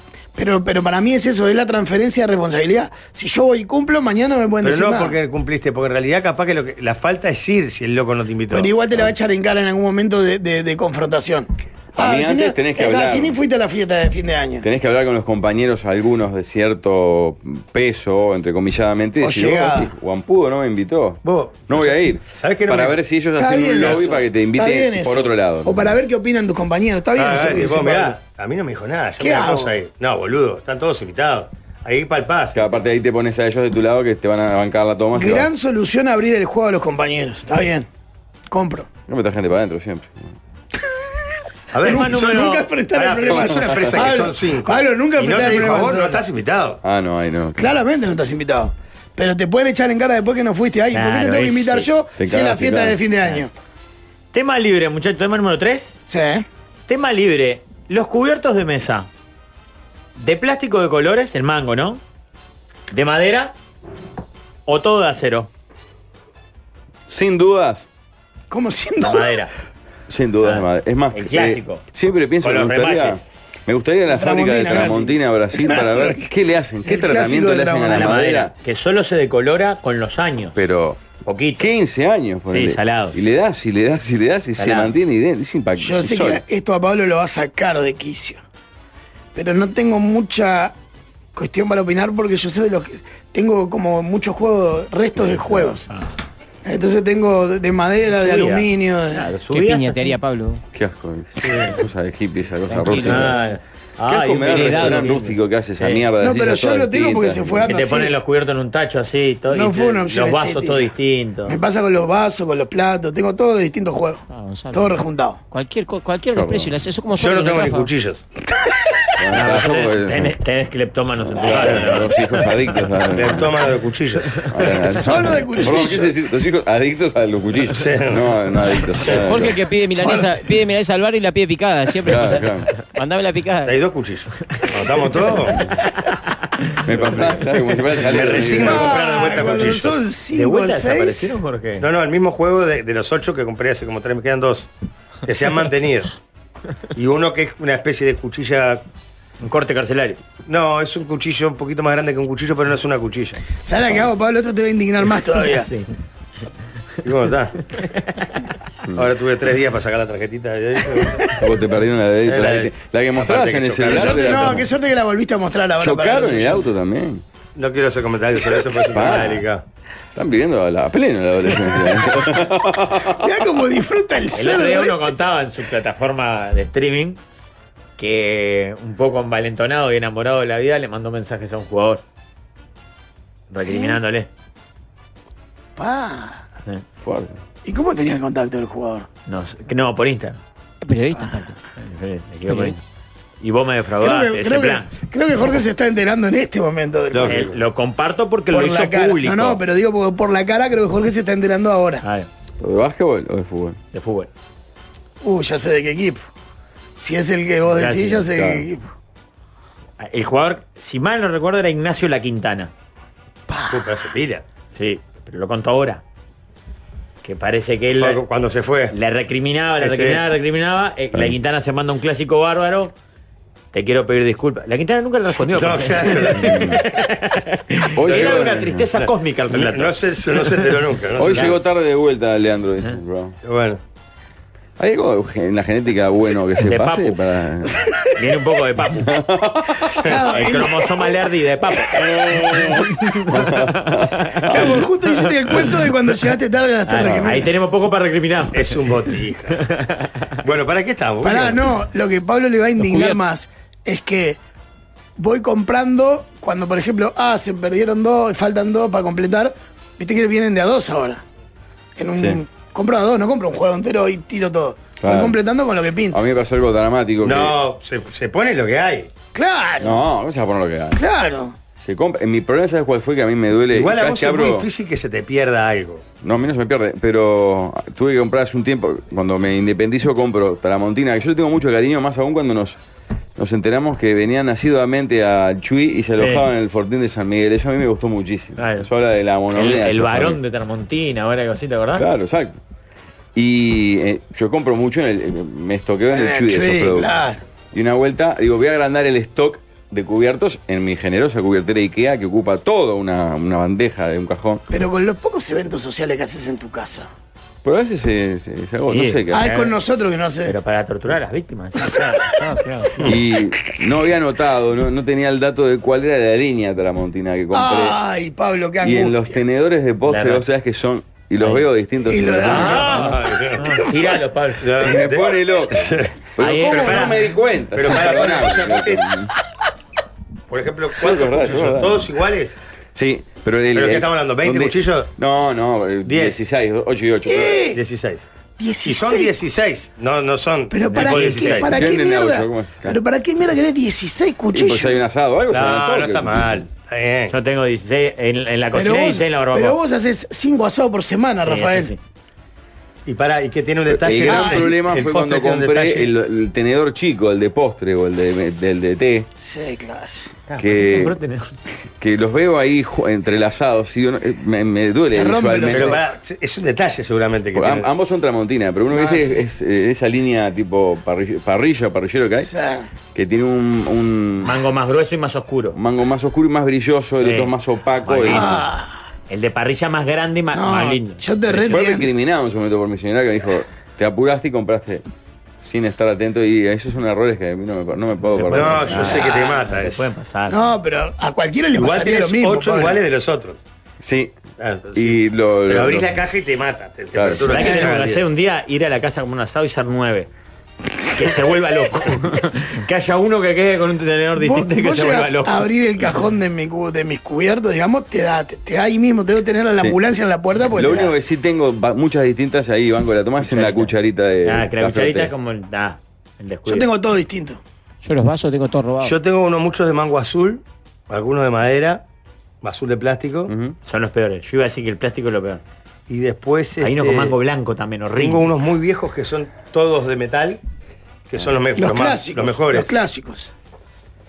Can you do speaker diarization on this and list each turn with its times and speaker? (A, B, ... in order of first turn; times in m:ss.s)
0:00.3-0:05.2 A
0:04.6-0:08.8 B
0:08.5-0:14.6 A
0:12.0-0:13.4 C
0:14.6-0:25.8 C
0:19.2-0:19.9 A
0:21.2-0:23.0 B
0:23.3-0:28.2 A
0:27.1-0:32.6 B
0:29.2-0:29.7 A
0:32.5-0:35.5 C
0:35.1-0:37.9 A
0:38.5-0:38.9 A
0:39.1-0:40.3 C
0:41.7-0:46.8 B
0:41.8-0:46.2 A
0:41.8-0:42.7 D
0:43.3-0:44.0 C
0:46.8-0:47.7 C
0:47.6-0:53.5 A
0:50.9-0:51.9 D
0:52.2-0:53.0 C
0:54.3-0:56.0 D
0:56.1-0:56.4 A
0:56.9-0:59.1 D
1:00.2-1:02.0 D
1:02.9-1:03.5 D
1:04.6-1:05.5 D
1:07.1-1:07.9 C
1:08.5-1:09.4 A
1:09.0-1:09.5 D
1:10.1-1:18.5 C
1:10.4-1:11.8 D
1:12.4-1:13.2 D
1:14.1-1:16.2 A
1:16.8-1:18.2 A
1:17.9-1:20.6 D
1:20.6-1:21.0 C
1:21.2-1:21.7 D
1:21.6-1:26.4 C
1:22.4-1:23.2 D
1:24.6-1:24.9 D
1:25.8-1:28.4 A
1:29.3-1:30.7 A
1:31.3-1:35.8 A
1:36.6-1:39.3 A
1:38.2-1:40.2 D
1:39.5-1:40.6 E
1:40.7-1:43.4 C
1:42.7-1:43.4 E
1:43.0-1:46.1 D
1:44.1-1:47.7 C
1:44.4-1:45.1 E
1:46.2-1:48.2 A
1:47.6-1:51.6 D
1:49.5-1:50.9 A
1:51.4-1:54.2 A
1:54.3-1:57.9 E
1:54.7-1:55.4 A
1:56.3-1:56.7 C
1:57.2-1:58.2 B
1:59.2-2:00.4 C
1:59.3-2:02.8 D
2:01.2-2:03.6 C
2:03.1-2:04.5 B
2:04.5-2:09.5 C
2:04.8-2:06.1 A
2:07.8-2:08.2 B
2:09.2-2:13.8 E
2:10.0-2:10.3 A
2:12.0-2:12.7 C
2:13.6-2:15.7 B
2:16.7-2:18.0 D
2:16.8-2:19.0 C
2:18.0-2:20.0 B
2:18.5-2:21.4 A
2:20.3-2:21.9 D
2:21.8-2:24.7 B
2:25.2-2:26.1 B
2:27.0-2:28.8 B
2:29.4-2:30.2 D
2:30.4-2:33.4 B
2:33.6-2:35.7 A
2:35.4-2:35.9 D
2:37.0-2:37.6 B
2:37.7-2:38.5 D
2:39.0-2:41.2 B
2:41.4-2:44.6 C
2:42.2-2:44.4 B
2:43.8-2:46.6 A
2:45.8-2:47.2 C
2:47.5-2:49.6 B
2:48.9-2:49.4 C
2:49.0-2:49.4 D
2:50.2-2:53.5 C
2:53.2-2:55.1 A
2:54.4-2:57.2 D
2:58.0-3:02.0 D
3:03.5-3:04.3 D
3:03.6-3:04.0 A
3:05.8-3:06.4 A
3:07.0-3:07.4 C
3:07.6-3:09.1 A
3:09.3-3:10.4 D
3:10.8-3:11.6 E
3:11.8-3:12.8 D
3:12.5-3:12.8 E
3:13.4-3:14.9 D
3:14.0-3:17.4 A
3:17.1-3:17.6 B
3:17.2-3:19.6 D
3:18.5-3:22.0 A
3:22.0-3:22.3 D
3:22.6-3:23.8 C
3:23.9-3:24.3 D
3:25.2-3:26.2 A
3:27.0-3:28.8 A
3:27.7-3:28.3 D
3:28.3-3:28.6 C
3:30.0-3:32.7 D
3:33.5-3:34.0 A
3:33.7-3:34.4 B
3:34.7-3:36.0 D
3:37.2-3:38.2 D
3:38.0-3:38.9 B
3:38.9-3:42.9 D
3:39.8-3:40.2 B
3:43.7-3:50.7 D
3:45.3-3:46.6 B
3:46.4-3:46.8 C
3:47.9-3:48.9 C
3:48.1-3:51.6 B
3:51.2-3:53.3 C
3:53.4-3:53.8 B
3:54.8-3:57.8 C
3:56.6-3:57.2 D
3:58.1-3:59.1 D
3:58.9-4:00.1 C
4:00.0-4:01.2 A
4:00.3-4:04.8 D
4:01.9-4:05.5 C
4:04.5-4:07.5 A
4:05.5-4:05.7 D
4:06.9-4:10.3 D
4:08.5-4:09.6 B
4:10.4-4:11.6 B
4:11.2-4:14.4 A
4:12.8-4:13.2 E
4:15.2-4:21.2 A
4:22.0-4:26.2 A
4:22.1-4:22.4 C
4:25.0-4:25.4 C
4:26.1-4:27.6 C
4:27.2-4:29.1 B
4:29.3-4:30.0 A
4:29.8-4:31.0 C
4:31.0-4:31.6 A
4:31.8-4:34.7 C
4:33.7-4:36.0 B
4:36.2-4:42.8 C
4:43.4-4:50.4 C
4:46.2-4:46.5 D
4:48.6-4:48.9 D
4:49.5-4:52.0 D
4:52.0-4:52.6 C
4:53.3-4:57.1 C
4:56.1-4:57.4 A
4:57.7-5:04.6 C
5:04.7-5:07.1 A
5:07.6-5:09.5 C
5:08.9-5:09.7 D
5:09.3-5:10.5 A
5:10.4-5:13.0 D
5:11.8-5:12.4 A
5:13.0-5:18.0 C
5:17.5-5:19.4 A
5:18.8-5:23.3 C
5:20.1-5:20.4 D
5:21.4-5:21.6 D
5:22.1-5:23.0 A
5:22.5-5:24.8 D
5:22.9-5:23.7 B
5:24.6-5:26.1 B
5:24.8-5:29.3 C
5:26.4-5:27.3 D
5:26.8-5:27.2 B
5:27.7-5:29.0 B
5:30.5-5:32.6 B
5:31.0-5:32.1 C
5:32.9-5:37.6 C
5:33.7-5:35.1 B
5:36.0-5:36.4 B
5:37.2-5:37.8 A
5:37.7-5:38.2 B
5:38.6-5:39.3 A
5:38.8-5:41.8 B
5:40.7-5:45.0 A
5:40.9-5:41.6 D
5:41.4-5:43.0 C
5:44.5-5:46.6 C
5:45.5-5:47.4 B
5:47.3-5:49.8 D
5:48.7-5:51.9 A
5:51.4-5:52.0 D
5:53.0-5:56.1 B
5:53.9-5:59.3 C
5:54.2-5:54.7 A
5:59.4-6:00.3 A
6:00.5-6:01.5 D
6:00.6-6:01.2 C
6:02.0-6:06.0 C
6:05.1-6:06.0 A
6:05.7-6:07.9 B
6:07.5-6:12.5 C
6:08.9-6:09.4 A
6:12.4-6:12.9 A
6:13.1-6:14.6 C
6:14.4-6:15.8 D
6:15.7-6:18.6 C
6:17.2-6:17.5 D
6:18.0-6:18.6 D
6:18.2-6:18.9 A
6:19.3-6:21.9 D
6:20.5-6:22.1 A
6:21.6-6:25.0 C
6:25.6-6:29.2 C
6:28.3-6:30.6 D
6:28.5-6:30.0 B
6:29.0-6:29.3 A
6:30.5-6:33.0 A
6:31.7-6:33.6 B
6:34.0-6:34.4 C
6:34.6-6:38.2 B
6:34.9-6:36.2 C
6:37.1-6:37.6 C
6:37.4-6:40.3 D
6:37.6-6:38.0 A
6:41.1-6:46.2 D
6:44.4-6:51.1 A
6:50.7-6:55.3 C
6:53.4-6:53.9 D
6:54.4-6:56.9 D
6:56.7-6:57.6 A
6:58.0-6:59.2 E
6:59.0-7:02.0 B
7:02.6-7:03.5 B
7:03.5-7:03.7 C
7:03.8-7:05.6 D
7:06.1-7:07.4 B
7:06.8-7:08.5 D
7:08.2-7:10.6 B
7:11.3-7:12.9 B
7:11.8-7:13.5 A